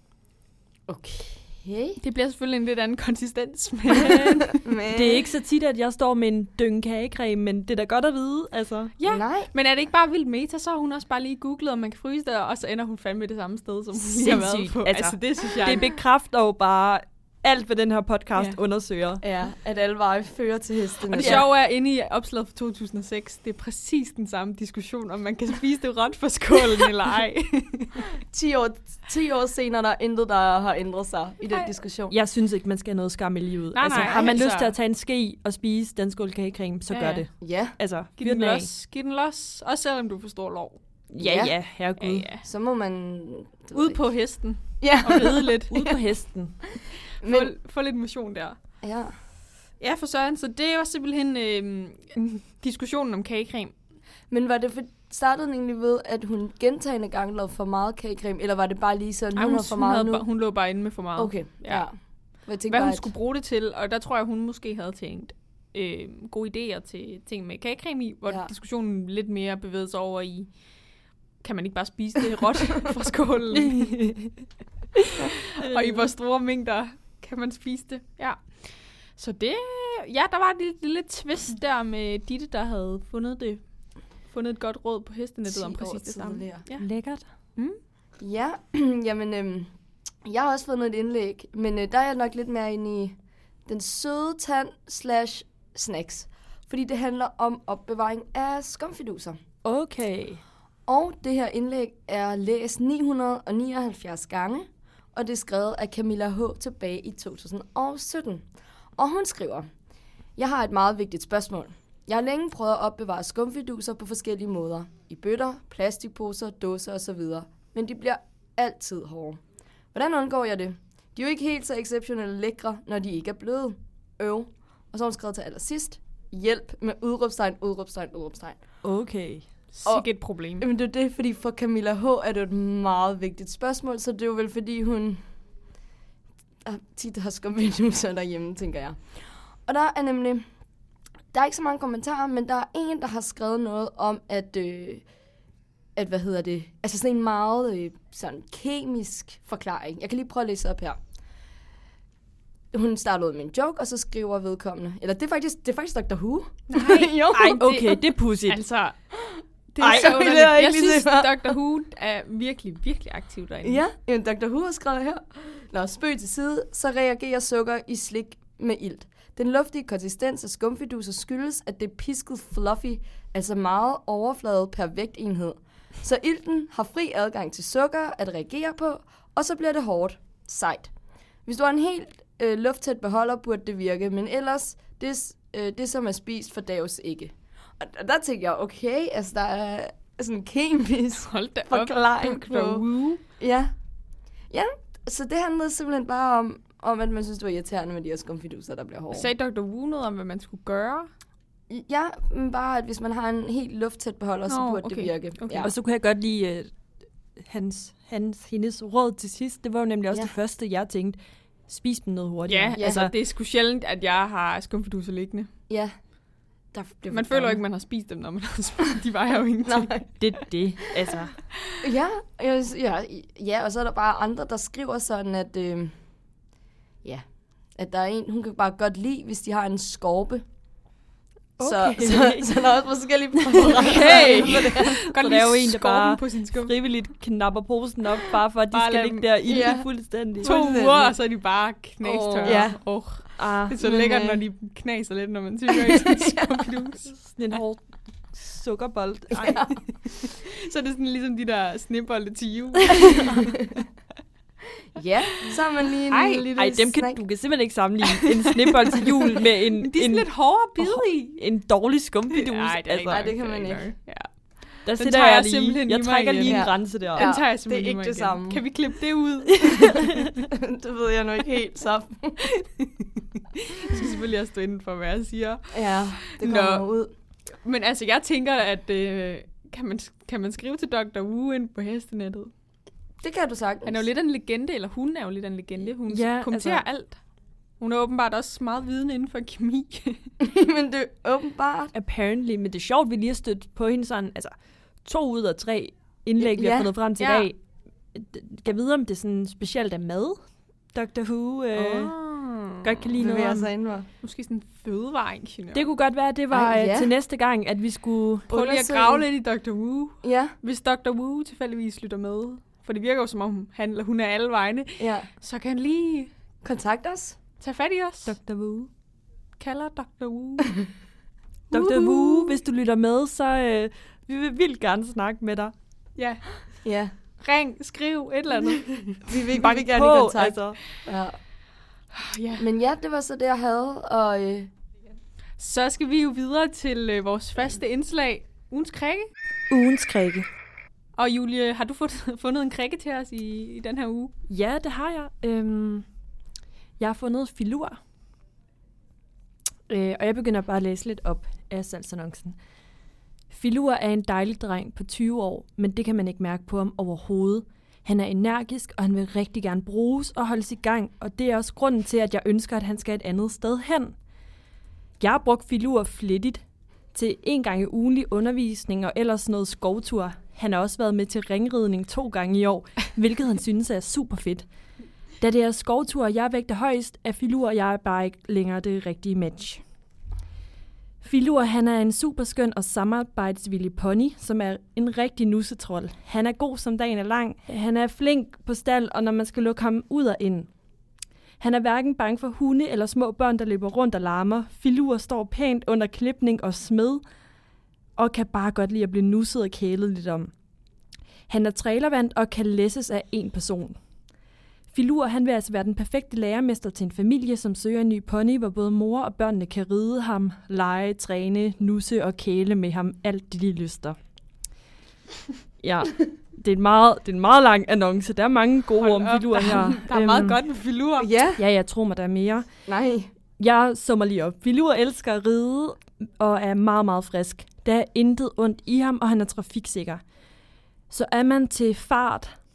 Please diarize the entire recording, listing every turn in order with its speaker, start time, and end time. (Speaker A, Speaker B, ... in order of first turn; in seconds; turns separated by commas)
Speaker A: 0.9-2.0, Speaker B: 2.0-4.6, Speaker A: 4.6-5.3, Speaker C: 4.9-8.9, Speaker B: 9.0-15.9, Speaker A: 9.1-9.5, Speaker C: 13.9-19.2, Speaker A: 19.2-21.4, Speaker B: 21.1-28.1, Speaker C: 21.1-21.5, Speaker A: 28.3-32.1, Speaker B: 31.5-31.7, Speaker C: 32.1-38.7, Speaker B: 33.7-34.8, Speaker B: 36.9-37.3, Speaker A: 37.4-37.8, Speaker B: 38.2-40.8, Speaker C: 41.1-42.3, Speaker A: 41.2-41.6, Speaker B: 42.0-42.4, Speaker A: 42.4-44.0, Speaker B: 43.7-45.8, Speaker A: 44.8-46.0, Speaker C: 45.7-46.6, Speaker A: 47.2-47.5, Speaker B: 47.2-48.6, Speaker A: 48.8-49.1, Speaker B: 49.8-53.7, Speaker A: 54.3-60.2, Speaker B: 59.4-61.9, Speaker A: 61.2-61.9, Speaker A: 62.5-63.1, Speaker B: 62.7-70.5, Speaker B: 71.4-74.0, Speaker C: 73.5-74.3, Speaker B: 75.3-83.6, Speaker C: 75.7-76.1, Speaker B: 84.3-86.9, Speaker A: 85.5-86.7, Speaker C: 86.8-87.2, Speaker A: 88.2-89.7, Speaker A: 90.2-93.2, Speaker A: 93.7-99.4, Speaker C: 99.6-100.4, Speaker A: 100.9-108.5, Speaker A: 109.0-109.7, Speaker A: 110.4-119.4, Speaker A: 119.9-128.6, Speaker C: 128.8-129.5, Speaker B: 129.7-130.7, Speaker A: 130.6-135.2, Speaker A: 136.7-140.4, Speaker A: 141.3-145.0, Speaker A: 146.0-151.0, Speaker A: 152.7-157.9, Speaker B: 156.7-159.0, Speaker C: 157.3-158.6, Speaker A: 159.2-161.6, Speaker B: 159.8-163.8, Speaker C: 159.8-160.3, Speaker A: 163.6-180.9, Speaker A: 181.5-192.9, Speaker B: 191.2-193.2, Speaker A: 193.4-193.7, Speaker A: 194.5-199.3, Speaker B: 199.1-201.1, Speaker A: 201.7-205.7, Speaker B: 204.5-205.7, Speaker C: 205.6-206.7, Speaker C: 207.4-211.2, Speaker C: 211.7-213.1, Speaker B: 212.5-215.5, Speaker A: 212.8-213.1, Speaker A: 216.7-217.6, Speaker B: 217.1-220.4, Speaker A: 219.7-220.1, Speaker C: 220.2-221.3, Speaker A: 221.8-225.9, Speaker A: 227.8-230.4, Speaker C: 231.6-232.7, Speaker A: 231.6-235.0, Speaker C: 233.5-240.6, Speaker B: 233.7-236.7, Speaker B: 238.7-239.7, Speaker A: 239.4-239.9, Speaker B: 240.4-247.2, Speaker A: 240.4-241.2, Speaker A: 242.0-242.8, Speaker C: 242.4-242.7, Speaker C: 243.4-244.4, Speaker A: 245.7-246.6, Speaker C: 247.2-249.7, Speaker A: 249.3-249.8, Speaker B: 249.9-253.8, Speaker A: 254.9-257.2, Speaker B: 256.1-256.5, Speaker C: 256.6-263.3, Speaker B: 259.0-261.4, Speaker B: 262.3-264.3, Speaker A: 263.1-263.8, Speaker C: 264.9-267.3, Speaker B: 264.9-270.2, Speaker A: 266.4-268.6, Speaker C: 269.6-270.3, Speaker A: 270.4-272.4, Speaker B: 272.4-276.9, Speaker A: 275.7-277.1, Speaker B: 277.6-282.5, Speaker A: 283.2-284.1, Speaker B: 283.9-287.2, Speaker C: 286.1-286.9, Speaker B: 287.8-290.3, Speaker A: 290.4-291.9, Speaker C: 291.9-297.6, Speaker A: 296.4-296.9, Speaker B: 297.2-297.5, Speaker C: 298.1-300.4, Speaker C: 300.9-302.1, Speaker B: 301.8-303.1, Speaker C: 302.8-303.7, Speaker A: 303.2-304.1, Speaker B: 304.2-305.9, Speaker C: 305.7-308.5, Speaker A: 306.5-307.1, Speaker B: 308.5-316.3, Speaker A: 308.5-309.3, Speaker A: 310.2-310.6, Speaker A: 315.0-315.3, Speaker A: 316.6-317.4, Speaker B: 317.6-318.4, Speaker C: 318.3-318.9, Speaker B: 319.6-320.8, Speaker B: 321.7-322.6, Speaker C: 321.7-325.7, Speaker B: 326.2-326.4, Speaker A: 326.8-327.1, Speaker B: 327.4-329.2, Speaker A: 329.2-331.4, Speaker C: 329.5-330.8, Speaker B: 332.1-332.7, Speaker A: 332.6-334.7, Speaker B: 335.6-339.3, Speaker C: 339.7-340.5, Speaker B: 341.2-344.3, Speaker C: 344.5-346.1, Speaker C: 347.0-348.0, Speaker C: 349.9-352.6, Speaker C: 353.5-364.1, Speaker C: 365.2-366.6, Speaker C: 367.1-374.7, Speaker C: 375.4-379.8, Speaker C: 381.2-390.7, Speaker C: 391.6-397.2, Speaker C: 398.2-400.5, Speaker C: 401.5-404.0, Speaker C: 404.9-414.2, Speaker C: 415.8-420.6, Speaker B: 419.0-421.3, Speaker A: 421.2-421.6, Speaker C: 421.6-422.7, Speaker A: 422.9-423.3, Speaker C: 423.6-430.2, Speaker C: 431.1-432.6